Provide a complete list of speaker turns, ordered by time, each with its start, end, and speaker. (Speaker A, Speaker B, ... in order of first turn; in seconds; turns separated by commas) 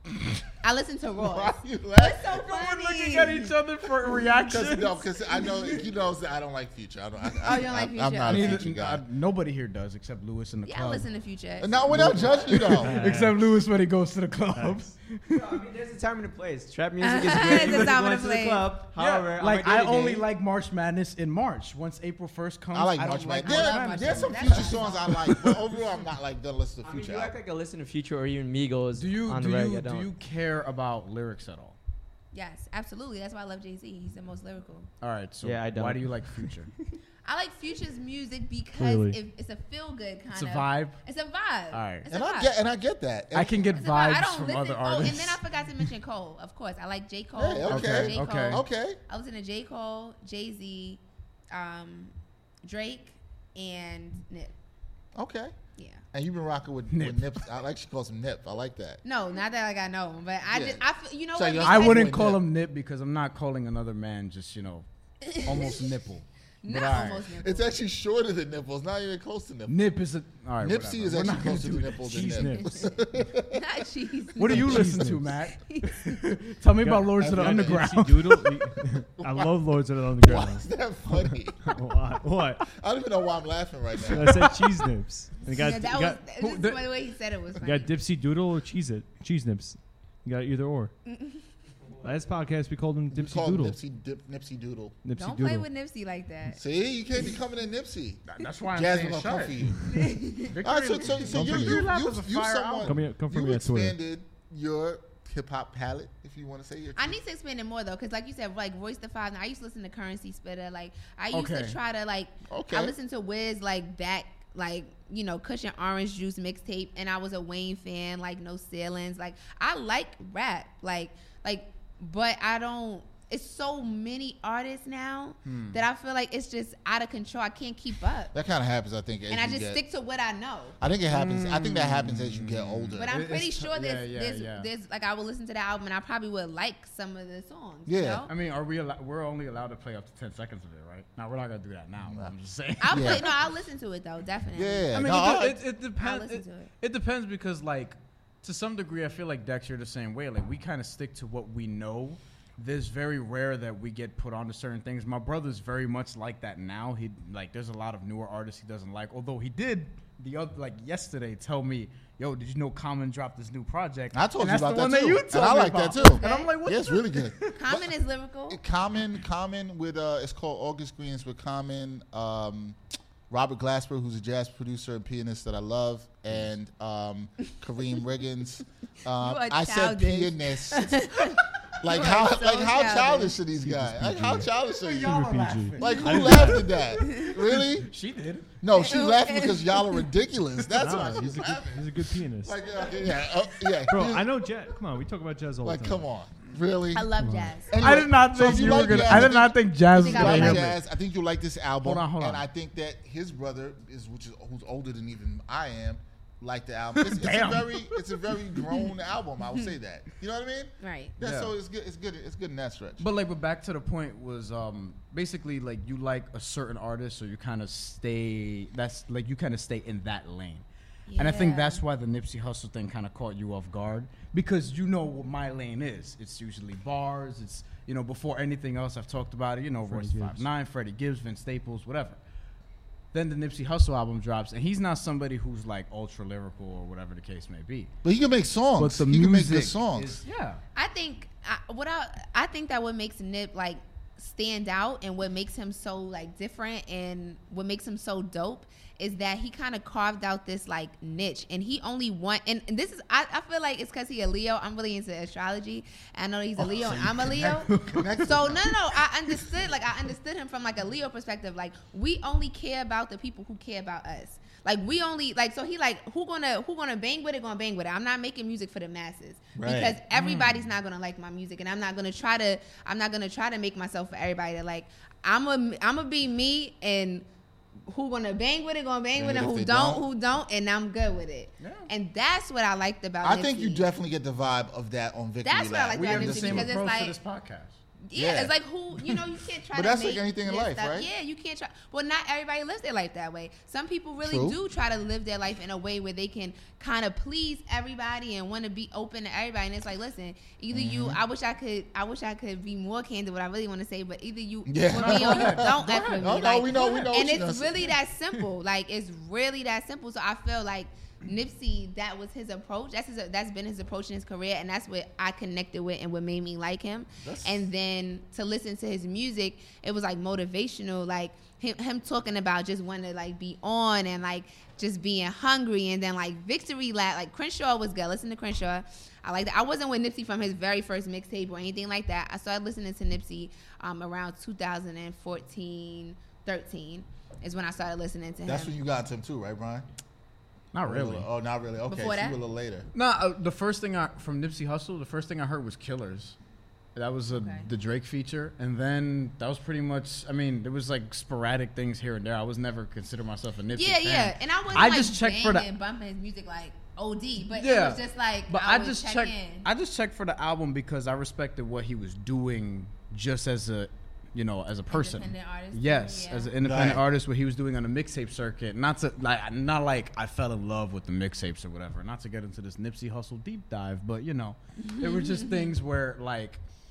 Speaker A: 0.6-3.4, Speaker B: 1.2-2.4, Speaker C: 2.3-5.0, Speaker B: 4.5-9.0, Speaker A: 7.4-8.6, Speaker C: 8.3-11.1, Speaker A: 10.7-12.6, Speaker B: 11.6-13.1, Speaker C: 11.9-15.6, Speaker D: 12.8-13.6, Speaker D: 14.6-14.9, Speaker E: 15.3-20.3, Speaker A: 17.0-18.7, Speaker C: 19.0-25.6, Speaker B: 22.7-27.4, Speaker A: 23.4-25.2, Speaker E: 26.8-30.1, Speaker C: 28.9-31.8, Speaker A: 32.3-34.9, Speaker C: 35.0-36.7, Speaker E: 35.4-36.5, Speaker A: 37.2-42.6, Speaker D: 38.8-39.2, Speaker C: 40.3-41.0, Speaker C: 41.7-42.1, Speaker B: 42.1-43.7, Speaker C: 43.3-45.9, Speaker A: 43.7-51.0, Speaker B: 47.4-49.0, Speaker C: 47.7-48.6, Speaker A: 51.5-54.5, Speaker B: 55.1-55.5, Speaker A: 55.8-56.0, Speaker B: 56.1-59.0, Speaker C: 56.9-57.3, Speaker A: 59.0-62.1, Speaker B: 60.5-60.8, Speaker B: 61.3-62.4, Speaker C: 61.6-64.8, Speaker A: 65.2-65.9, Speaker C: 65.4-67.3, Speaker A: 66.6-67.7, Speaker B: 66.8-69.8, Speaker C: 69.7-72.6, Speaker B: 70.6-73.6, Speaker D: 72.2-72.6, Speaker A: 72.6-72.9, Speaker A: 73.5-76.1, Speaker C: 74.4-78.6, Speaker D: 74.5-75.3, Speaker D: 76.8-80.7, Speaker B: 77.2-78.0, Speaker B: 79.2-79.6, Speaker B: 80.2-81.7, Speaker D: 81.6-82.7, Speaker B: 82.7-84.5, Speaker D: 84.1-86.2, Speaker C: 84.2-84.5, Speaker A: 85.5-87.9, Speaker C: 86.4-86.9, Speaker D: 87.6-90.9, Speaker A: 91.1-91.4, Speaker D: 92.0-93.8, Speaker B: 93.1-95.0, Speaker D: 95.0-95.7, Speaker A: 95.2-96.6, Speaker B: 96.5-99.9, Speaker C: 98.3-103.0, Speaker A: 99.9-100.5, Speaker B: 100.6-107.2, Speaker D: 101.3-101.8, Speaker D: 102.8-104.0, Speaker A: 107.0-128.3, Speaker C: 111.3-111.8, Speaker B: 112.5-113.0, Speaker C: 125.5-125.8, Speaker B: 128.3-129.8, Speaker A: 129.3-130.8, Speaker B: 130.8-133.1, Speaker C: 131.1-134.7, Speaker A: 133.0-138.3, Speaker B: 137.9-138.3, Speaker C: 138.3-143.3, Speaker B: 142.0-142.3, Speaker A: 142.8-146.7, Speaker B: 142.9-143.3, Speaker B: 144.6-145.6, Speaker C: 144.9-167.6, Speaker B: 164.1-167.9, Speaker A: 166.0-166.6, Speaker A: 167.5-168.6, Speaker B: 168.5-172.8, Speaker B: 173.3-187.9, Speaker A: 179.2-183.4, Speaker D: 183.6-186.7, Speaker C: 184.7-188.5, Speaker B: 188.6-194.4, Speaker A: 188.7-190.0, Speaker D: 190.8-192.6, Speaker D: 193.9-196.0, Speaker B: 195.6-197.1, Speaker A: 196.9-197.7, Speaker D: 197.3-197.5, Speaker B: 197.7-213.1, Speaker C: 197.8-200.8, Speaker A: 200.0-200.7, Speaker C: 201.8-202.4, Speaker C: 207.0-208.1, Speaker A: 210.8-211.2, Speaker C: 211.2-211.5, Speaker C: 213.0-220.7, Speaker A: 221.1-221.8, Speaker C: 221.2-232.2, Speaker D: 229.9-230.5, Speaker C: 233.1-237.9, Speaker B: 238.0-240.2, Speaker C: 238.8-240.6, Speaker A: 240.8-257.7, Speaker B: 256.6-258.7, Speaker C: 256.8-258.2, Speaker A: 258.2-277.3, Speaker B: 269.6-270.0, Speaker C: 270.1-270.7, Speaker A: 277.9-283.9, Speaker B: 279.2-280.1, Speaker C: 281.6-281.9, Speaker B: 283.2-286.8, Speaker A: 285.4-287.2, Speaker C: 285.9-287.8, Speaker A: 288.1-338.8, Speaker B: 288.1-288.5, Speaker B: 289.7-291.1, Speaker B: 294.2-294.6, Speaker B: 300.7-301.2, Speaker B: 304.7-307.9, Speaker C: 305.0-306.2, Speaker B: 317.2-317.7, Speaker B: 338.5-339.9, Speaker C: 340.7-341.3, Speaker B: 340.9-342.9, Speaker A: 341.9-342.4, Speaker C: 342.9-346.4, Speaker C: 347.0-355.7, Speaker A: 347.3-347.7, Speaker A: 353.7-359.7, Speaker C: 357.5-376.6, Speaker A: 364.9-366.5, Speaker B: 366.6-367.1, Speaker A: 374.8-375.7